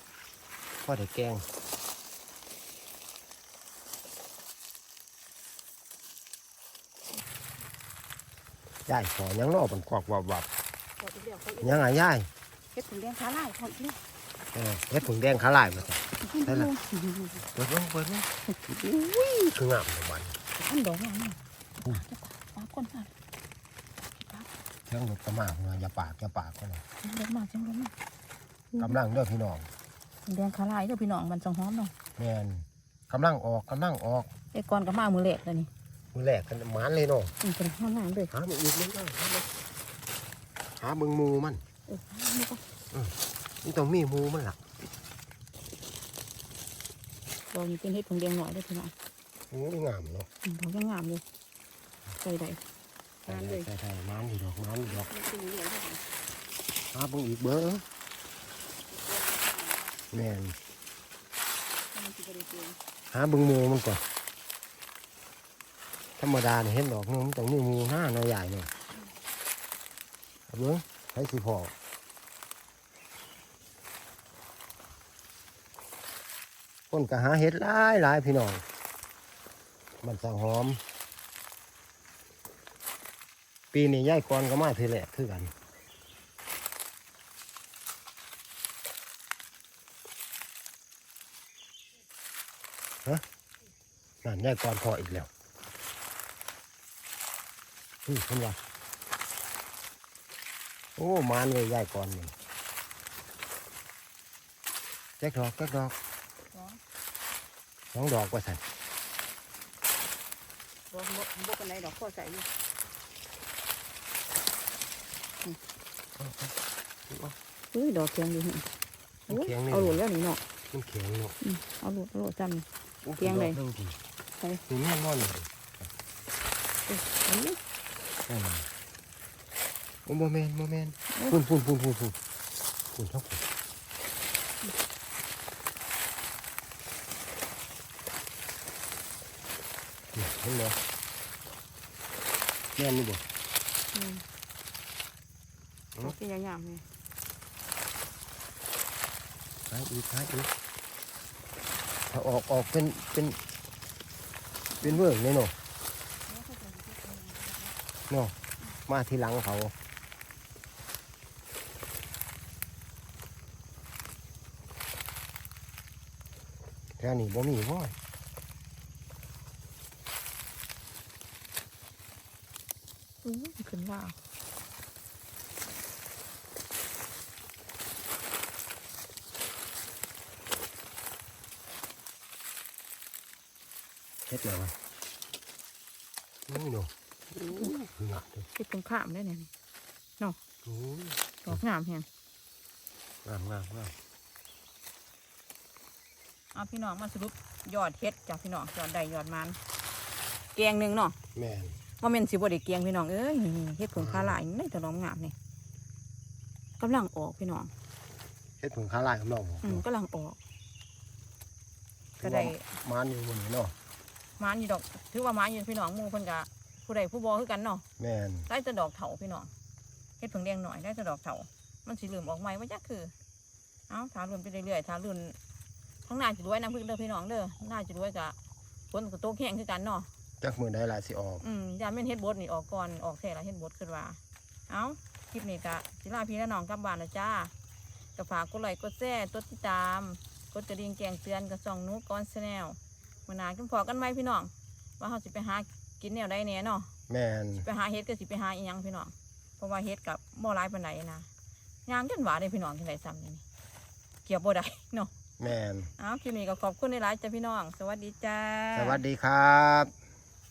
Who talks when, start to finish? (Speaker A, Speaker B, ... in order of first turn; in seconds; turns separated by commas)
Speaker A: 0.8-1.4, Speaker A: 8.9-10.5, Speaker B: 11.0-11.8, Speaker A: 11.6-12.3, Speaker B: 12.7-14.0, Speaker A: 14.5-16.7, Speaker B: 16.2-17.4, Speaker A: 17.5-20.4, Speaker B: 20.6-23.1, Speaker B: 24.2-24.5, Speaker A: 24.9-26.8, Speaker B: 27.0-27.9, Speaker A: 28.8-29.7, Speaker B: 30.3-31.9, Speaker A: 32.2-34.3, Speaker B: 34.5-35.7, Speaker A: 36.1-37.3, Speaker B: 37.4-38.3, Speaker A: 38.3-39.5, Speaker A: 40.8-41.6, Speaker B: 41.9-42.6, Speaker A: 42.9-44.6, Speaker B: 47.5-48.9, Speaker A: 49.5-50.3, Speaker B: 50.4-51.2, Speaker B: 52.2-52.6, Speaker B: 53.3-53.7, Speaker A: 53.3-55.1, Speaker B: 55.0-56.0, Speaker A: 56.9-57.9, Speaker B: 58.9-60.0, Speaker A: 60.1-60.6, Speaker B: 61.9-62.8, Speaker A: 63.1-64.0, Speaker A: 66.2-68.7, Speaker A: 70.5-71.7, Speaker A: 76.9-78.6, Speaker A: 80.0-80.8, Speaker A: 83.7-85.5, Speaker A: 94.2-95.3, Speaker A: 98.1-98.6, Speaker A: 101.0-102.3, Speaker A: 105.2-106.0, Speaker B: 106.5-106.8, Speaker A: 107.9-108.6, Speaker B: 110.9-112.5, Speaker A: 116.2-116.5, Speaker A: 117.1-117.4, Speaker B: 117.7-118.7, Speaker A: 119.3-120.0, Speaker B: 119.3-120.4, Speaker A: 120.7-121.4, Speaker B: 121.4-122.7, Speaker A: 123.0-124.0, Speaker B: 123.2-123.6, Speaker A: 124.7-125.5, Speaker B: 126.9-127.6, Speaker A: 128.3-128.7, Speaker A: 130.1-132.2, Speaker B: 131.1-131.4, Speaker A: 132.9-133.4, Speaker A: 140.1-140.8, Speaker A: 142.8-143.2, Speaker B: 143.9-144.2, Speaker B: 146.0-146.8, Speaker A: 149.7-150.5, Speaker A: 152.1-153.4, Speaker B: 154.7-155.0, Speaker A: 154.8-155.5, Speaker B: 156.3-157.7, Speaker A: 158.1-158.3, Speaker A: 158.9-159.7, Speaker A: 167.0-167.9, Speaker B: 173.2-174.2, Speaker A: 184.3-184.8, Speaker A: 186.5-188.5, Speaker B: 188.5-189.5, Speaker A: 190.6-191.6, Speaker B: 191.4-192.1, Speaker A: 193.2-193.9, Speaker B: 196.5-199.6, Speaker B: 200.6-201.2, Speaker A: 201.3-201.8, Speaker B: 202.0-205.3, Speaker A: 203.9-204.4, Speaker B: 206.8-207.7, Speaker A: 208.6-209.8, Speaker B: 209.6-210.4, Speaker A: 212.2-213.8, Speaker B: 212.2-212.7, Speaker B: 214.4-217.8, Speaker A: 218.0-218.5, Speaker B: 218.5-219.5, Speaker B: 220.2-223.1, Speaker B: 223.9-225.4, Speaker B: 226.1-228.4, Speaker B: 228.9-230.1, Speaker A: 230.4-231.4, Speaker B: 231.4-237.5, Speaker B: 238.2-246.9, Speaker A: 247.1-247.7, Speaker B: 247.6-251.3, Speaker B: 251.9-253.4, Speaker B: 254.2-255.1, Speaker A: 255.4-255.9, Speaker B: 256.0-259.0, Speaker A: 258.7-259.9